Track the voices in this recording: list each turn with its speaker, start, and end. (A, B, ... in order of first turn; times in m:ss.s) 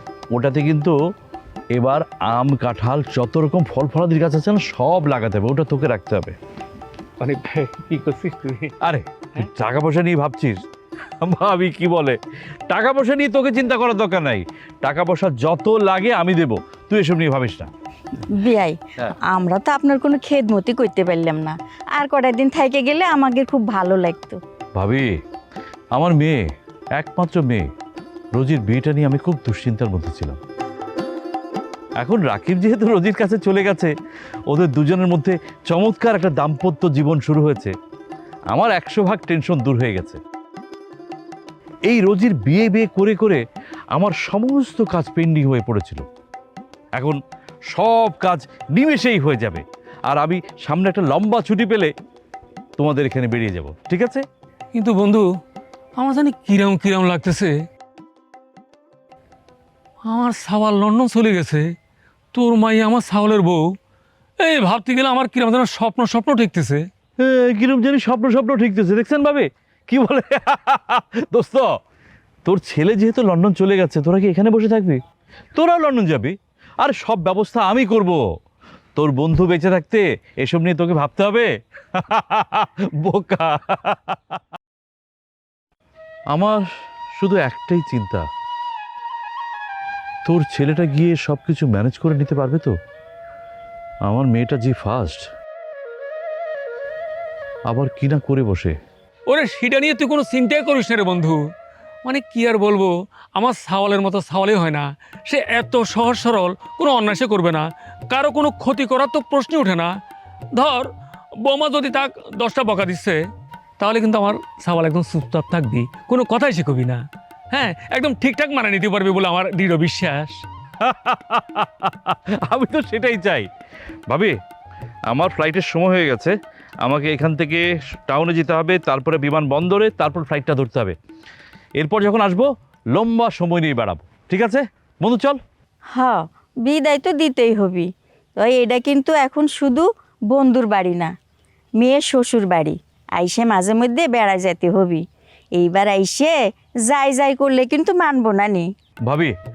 0:00.3-0:00.9 A
0:01.7-0:06.3 A
0:07.2-0:08.7 B
0:08.8-0:10.6 A
0:11.2-0:12.2 A
0:12.7-0:17.7 A
0:18.3-0:24.4 C
0:24.7-0:25.1 A
0:25.9-0:26.4 A
0:27.0-0:27.7 A
0:28.3-0:30.4 A
0:32.0-0:33.9 A
0:34.5-0:37.7 A
0:38.5-0:40.2 A
0:41.9-0:43.4 A
0:43.9-0:46.0 A
0:47.7-0:51.9 A
0:52.8-0:54.2 A
0:54.7-0:55.2 B
0:56.0-0:57.5 B
1:00.1-1:01.6 B
1:02.3-1:03.6 B
1:04.4-1:06.8 B
1:07.2-1:11.7 A
1:12.4-1:15.0 A
1:15.6-1:18.2 A
1:19.0-1:24.4 A
1:26.3-1:26.6 A
1:27.2-1:28.2 A
1:30.2-1:32.7 A
1:34.0-1:35.2 A
1:37.7-1:38.7 A
1:39.3-1:41.4 B
1:42.0-1:49.9 B
1:50.5-1:50.9 B
1:51.4-1:53.2 B
1:53.8-2:00.4 B
2:00.8-2:03.5 A
2:04.1-2:04.4 A
2:05.1-2:10.9 A
2:11.8-2:15.4 A
2:15.9-2:21.1 C
2:21.8-2:25.0 C
2:25.5-2:28.7 C
2:29.0-2:29.3 A